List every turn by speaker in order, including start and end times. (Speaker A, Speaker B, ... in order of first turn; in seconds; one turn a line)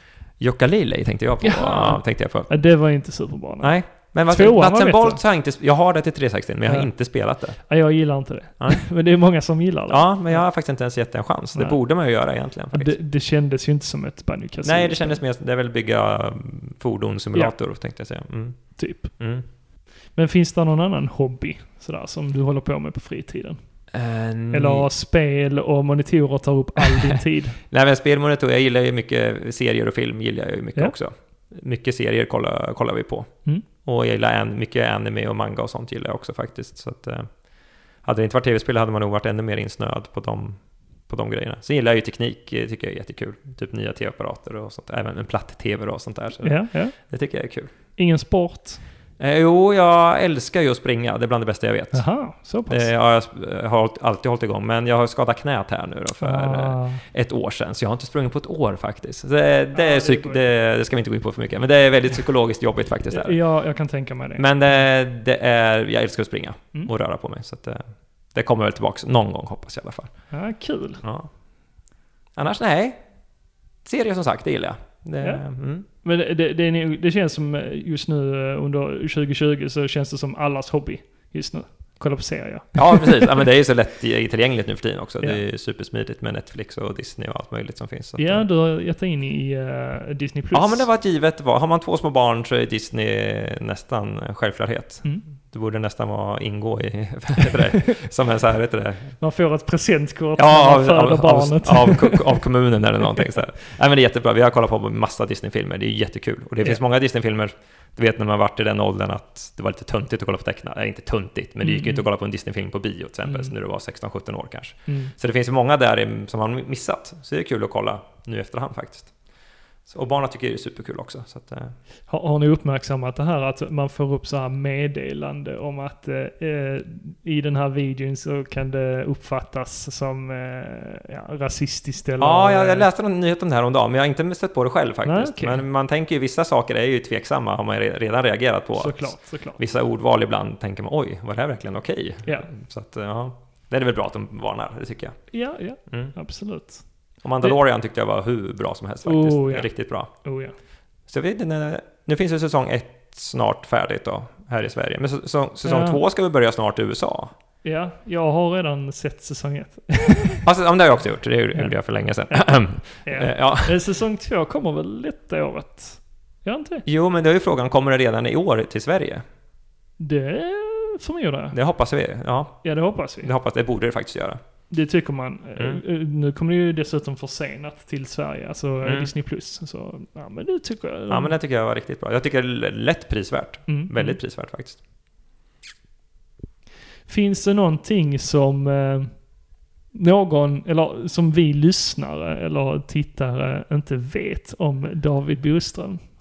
Speaker A: 0.4-2.6
Speaker B: 1.4-5.2
Speaker A: 3.6-7.7
Speaker B: 6.7-10.6
Speaker A: 8.6-8.9
Speaker A: 9.9-13.0
Speaker B: 11.5-11.8
Speaker B: 12.7-15.2
Speaker A: 14.6-19.4
Speaker B: 18.8-19.5
Speaker B: 20.1-23.6
Speaker A: 23.9-24.9
Speaker B: 24.5-27.6
Speaker A: 26.8-37.3
Speaker A: 38.0-47.7
Speaker B: 46.4-47.0
Speaker B: 48.0-48.8
Speaker A: 49.2-63.4
Speaker B: 51.9-52.9
Speaker B: 56.2-57.0
Speaker B: 59.7-60.4
Speaker B: 63.1-64.8
Speaker A: 64.4-70.4
Speaker B: 70.3-71.0
Speaker A: 71.0-71.3
Speaker A: 72.3-73.1
Speaker A: 73.8-75.8
Speaker B: 75.2-83.4
Speaker A: 82.8-88.5
Speaker B: 88.2-90.9
Speaker A: 90.5-99.2
Speaker B: 99.2-102.4
Speaker A: 100.4-119.2
Speaker B: 111.6-112.1
Speaker B: 113.2-113.5
Speaker B: 114.9-115.1
Speaker A: 119.9-121.8
Speaker B: 122.1-132.9
Speaker A: 132.2-146.2
Speaker B: 135.1-135.7
Speaker B: 138.8-139.6
Speaker B: 145.3-146.9
Speaker A: 147.2-150.3
Speaker B: 149.0-150.5
Speaker A: 151.1-157.3
Speaker B: 155.6-156.0
Speaker B: 157.6-160.4
Speaker A: 160.4-163.8
Speaker B: 162.3-166.8
Speaker A: 166.9-169.2
Speaker B: 170.0-171.6
Speaker A: 171.5-174.4
Speaker B: 172.6-173.3
Speaker B: 174.7-181.4
Speaker A: 175.6-175.8
Speaker A: 178.8-179.1
Speaker A: 181.1-184.8
Speaker B: 183.7-184.2
Speaker B: 187.1-189.3
Speaker B: 189.9-196.0